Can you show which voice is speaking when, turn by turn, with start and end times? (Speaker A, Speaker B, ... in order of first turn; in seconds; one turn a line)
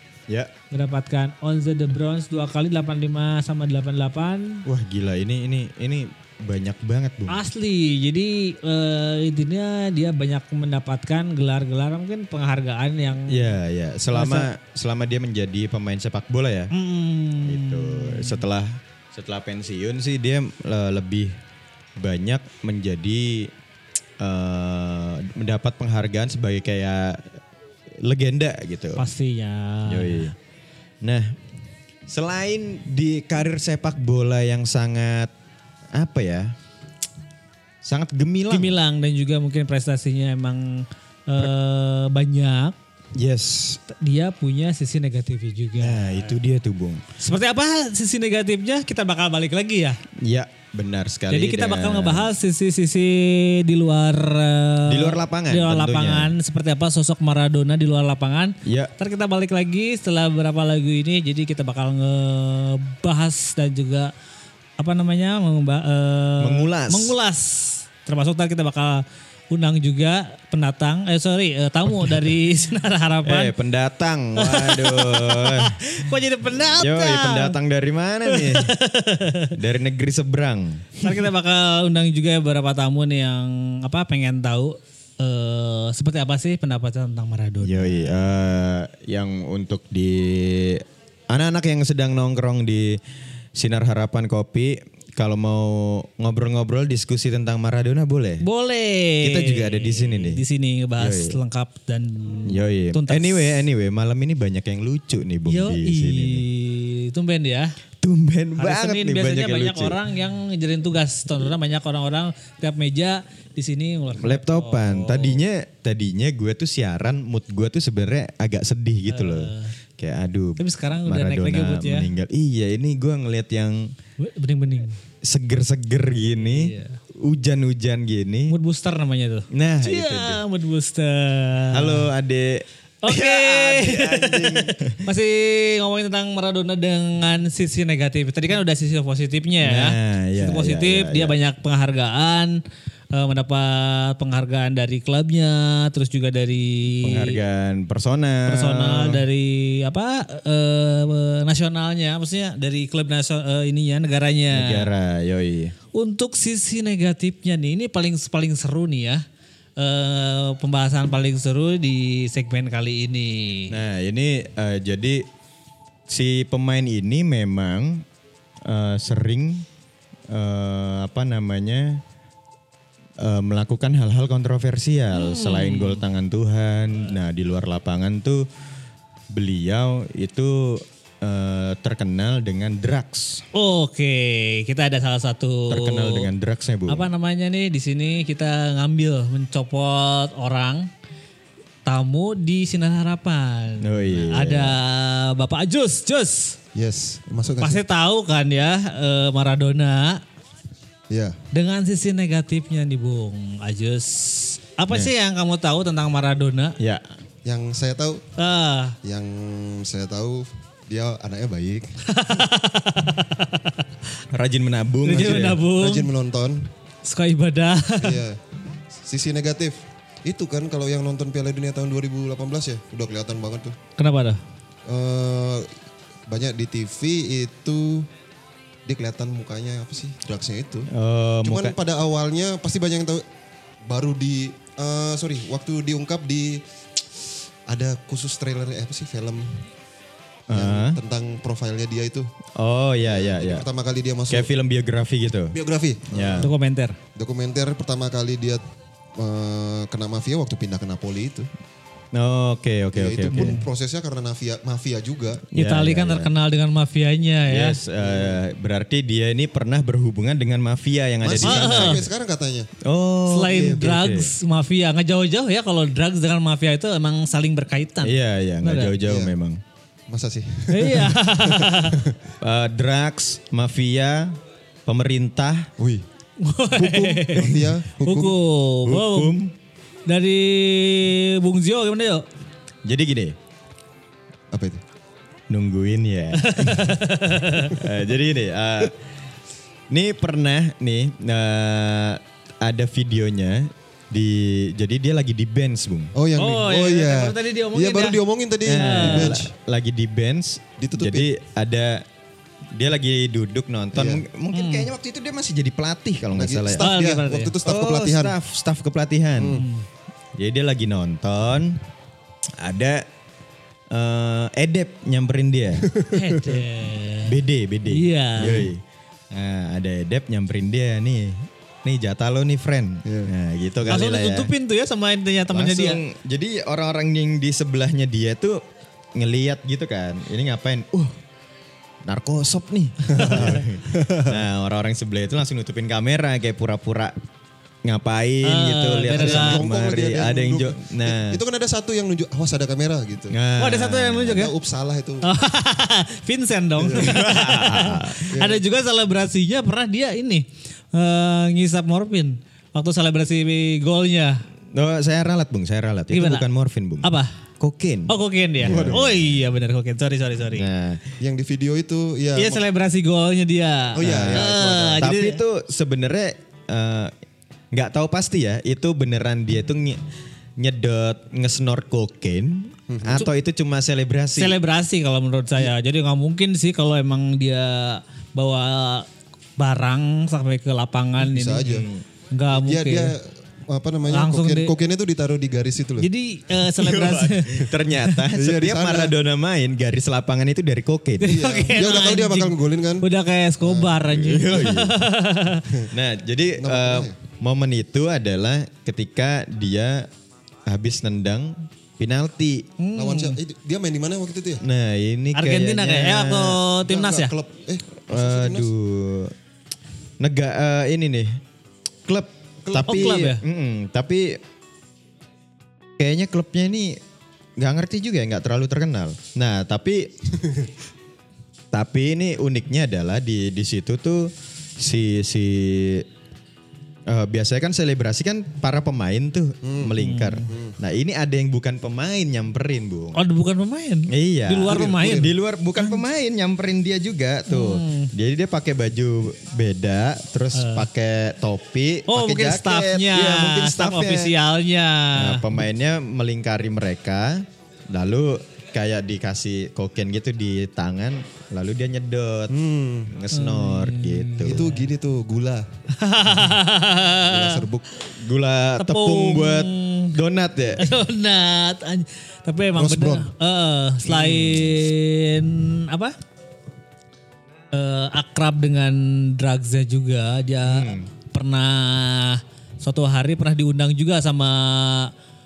Speaker A: 0.7-4.6
Speaker B: 4.7-7.4
Speaker A: 7.3-13.5
Speaker B: 13.3-16.7
Speaker A: 14.1-14.5
Speaker A: 16.7-18.4
Speaker B: 17.4-21.3
Speaker B: 22.0-23.5
Speaker B: 24.2-27.3
Speaker B: 28.0-29.0
Speaker A: 29.0-30.3
Speaker B: 29.9-30.4
Speaker B: 31.0-31.4
Speaker B: 32.1-35.3
Speaker B: 35.9-36.5
Speaker B: 37.8-38.8
Speaker A: 38.5-42.8
Speaker B: 43.1-43.8
Speaker A: 43.9-46.3
Speaker B: 45.8-47.0
Speaker A: 47.2-50.0
Speaker B: 50.2-52.3
Speaker A: 51.3-64.1
Speaker B: 54.9-56.4
Speaker B: 58.6-58.9
Speaker A: 64.8-73.5
Speaker B: 66.4-67.2
Speaker B: 73.3-75.8
Speaker A: 74.4-77.6
Speaker B: 76.6-78.7
Speaker A: 78.3-79.5
Speaker B: 79.5-81.2
Speaker A: 81.0-88.2
Speaker B: 87.6-93.0
Speaker B: 93.5-98.4
Speaker A: 98.4-103.6
Speaker B: 99.2-100.4
Speaker B: 101.0-101.4
Speaker B: 102.5-106.5
Speaker A: 105.5-107.7
Speaker B: 108.0-110.0
Speaker A: 108.6-115.4
Speaker B: 114.2-123.9
Speaker A: 119.1-119.7
Speaker A: 120.6-122.1
Speaker A: 124.2-125.0
Speaker B: 125.2-128.6
Speaker A: 126.4-127.0
Speaker A: 128.5-132.1
Speaker B: 129.5-130.4
Speaker B: 131.7-135.1
Speaker A: 133.0-142.6
Speaker B: 139.6-141.3
Speaker A: 143.1-147.4
Speaker B: 147.0-149.2
Speaker A: 148.5-154.9
Speaker B: 154.5-155.8
Speaker A: 155.9-159.2
Speaker A: 159.8-163.8
Speaker B: 163.7-165.3
Speaker B: 166.1-168.1
Speaker B: 168.6-169.7
Speaker B: 170.3-172.0
Speaker B: 173.2-178.5
Speaker A: 175.1-176.0
Speaker B: 179.3-183.4
Speaker A: 183.5-186.3
Speaker B: 185.7-187.1
Speaker A: 186.9-190.9
Speaker A: 191.8-196.6
Speaker B: 193.8-194.8
Speaker C: 196.8-197.8
Speaker A: 197.6-200.2
Speaker C: 201.1-201.4
Speaker A: 201.5-206.8
Speaker B: 206.8-207.1
Speaker C: 207.4-208.2
Speaker A: 208.4-209.0
Speaker C: 209.0-211.9
Speaker A: 212.1-213.8
Speaker B: 214.3-215.6
Speaker A: 215.0-216.1
Speaker C: 215.2-216.7
Speaker A: 217.0-218.2
Speaker C: 218.0-218.4
Speaker C: 218.9-223.8
Speaker A: 224.0-224.4
Speaker C: 224.9-225.7
Speaker C: 226.3-228.1
Speaker C: 228.9-230.9
Speaker B: 230.9-231.8
Speaker C: 231.4-233.2
Speaker C: 233.9-236.6
Speaker C: 237.7-239.7
Speaker B: 240.5-241.0
Speaker C: 240.5-242.3
Speaker B: 242.6-243.7
Speaker C: 243.0-244.5
Speaker B: 244.3-245.6
Speaker C: 245.5-246.5
Speaker B: 246.1-246.5
Speaker A: 246.4-247.0
Speaker C: 247.2-248.6
Speaker C: 249.2-251.5
Speaker B: 252.1-253.6
Speaker C: 252.9-255.4
Speaker A: 253.3-253.6
Speaker B: 255.5-256.3
Speaker A: 255.6-257.8
Speaker B: 257.5-262.1
Speaker C: 258.0-258.4
Speaker C: 261.2-262.7
Speaker A: 261.4-262.0
Speaker B: 262.8-264.3
Speaker A: 263.3-268.9
Speaker C: 263.5-263.8
Speaker B: 268.0-269.6
Speaker C: 269.0-269.3
Speaker C: 270.1-272.2
Speaker A: 270.7-272.0
Speaker B: 272.4-275.7
Speaker C: 275.8-276.1
Speaker A: 276.4-279.4
Speaker C: 276.7-278.4
Speaker B: 278.9-279.5
Speaker A: 280.1-282.3
Speaker B: 282.9-283.4
Speaker C: 284.5-284.8
Speaker B: 285.5-287.0
Speaker A: 286.4-287.8
Speaker B: 287.6-289.0
Speaker B: 289.9-296.1
Speaker C: 296.1-299.5
Speaker A: 296.4-299.4
Speaker B: 298.6-302.1
Speaker C: 300.8-301.3
Speaker B: 302.7-306.9
Speaker C: 303.9-304.2
Speaker A: 304.5-304.9
Speaker C: 306.4-308.4
Speaker A: 306.7-307.6
Speaker B: 307.6-309.6
Speaker C: 309.4-309.6
Speaker A: 309.5-309.9
Speaker B: 310.4-311.8
Speaker B: 312.6-313.1
Speaker B: 313.9-315.9
Speaker C: 315.8-316.6
Speaker A: 316.1-317.4
Speaker B: 317.2-324.5
Speaker A: 317.9-318.7
Speaker C: 323.1-323.3
Speaker A: 323.9-326.0
Speaker B: 325.5-328.6
Speaker B: 329.1-331.2
Speaker B: 332.1-337.1
Speaker C: 333.1-334.4
Speaker B: 337.9-341.4
Speaker A: 338.4-339.6
Speaker C: 339.1-343.4
Speaker B: 343.3-344.4
Speaker A: 343.6-344.5
Speaker C: 344.2-345.3
Speaker A: 345.2-354.4
Speaker C: 346.8-347.2
Speaker B: 346.9-348.3
Speaker C: 348.3-348.6
Speaker B: 354.7-359.3
Speaker A: 356.1-356.5
Speaker A: 357.0-357.3
Speaker A: 358.1-360.7
Speaker C: 358.7-359.0
Speaker B: 360.5-361.1
Speaker C: 361.2-362.6
Speaker A: 362.4-365.4
Speaker C: 363.9-365.1
Speaker B: 364.0-364.5
Speaker B: 365.0-367.1
Speaker B: 367.7-370.0
Speaker B: 370.6-374.6
Speaker C: 372.9-373.3
Speaker A: 374.4-379.1
Speaker A: 379.6-383.1
Speaker C: 381.2-381.9
Speaker B: 381.6-382.1
Speaker C: 382.5-386.1
Speaker A: 384.1-384.7
Speaker A: 386.0-388.2
Speaker B: 386.7-391.5
Speaker C: 388.3-389.1
Speaker A: 391.2-395.7
Speaker C: 391.2-393.1
Speaker C: 393.6-394.0
Speaker B: 394.1-395.0
Speaker B: 395.9-400.1
Speaker C: 396.6-397.1
Speaker B: 400.7-402.7
Speaker A: 402.8-403.4
Speaker C: 402.9-404.6
Speaker B: 404.6-406.6
Speaker A: 405.4-407.3
Speaker C: 406.8-408.7
Speaker B: 408.1-409.3
Speaker B: 410.2-411.4
Speaker B: 412.1-414.4
Speaker C: 412.6-413.2
Speaker A: 412.9-413.4
Speaker B: 416.0-417.0
Speaker B: 417.6-420.1
Speaker C: 420.4-420.7
Speaker B: 421.7-426.1
Speaker B: 427.1-433.2
Speaker C: 429.6-430.8
Speaker A: 430.0-430.4
Speaker A: 433.1-436.0
Speaker B: 434.1-444.4
Speaker C: 434.7-435.3
Speaker A: 437.5-438.1
Speaker A: 440.5-440.9
Speaker A: 442.1-445.4
Speaker B: 445.2-452.6
Speaker C: 452.5-453.1
Speaker B: 453.1-454.7
Speaker A: 453.3-454.8
Speaker C: 454.4-455.7
Speaker A: 455.9-457.6
Speaker C: 457.2-457.9
Speaker B: 458.0-460.9
Speaker A: 458.8-460.1
Speaker A: 460.8-466.2
Speaker C: 462.8-463.3
Speaker C: 464.2-464.6
Speaker A: 467.7-475.1
Speaker B: 470.6-471.1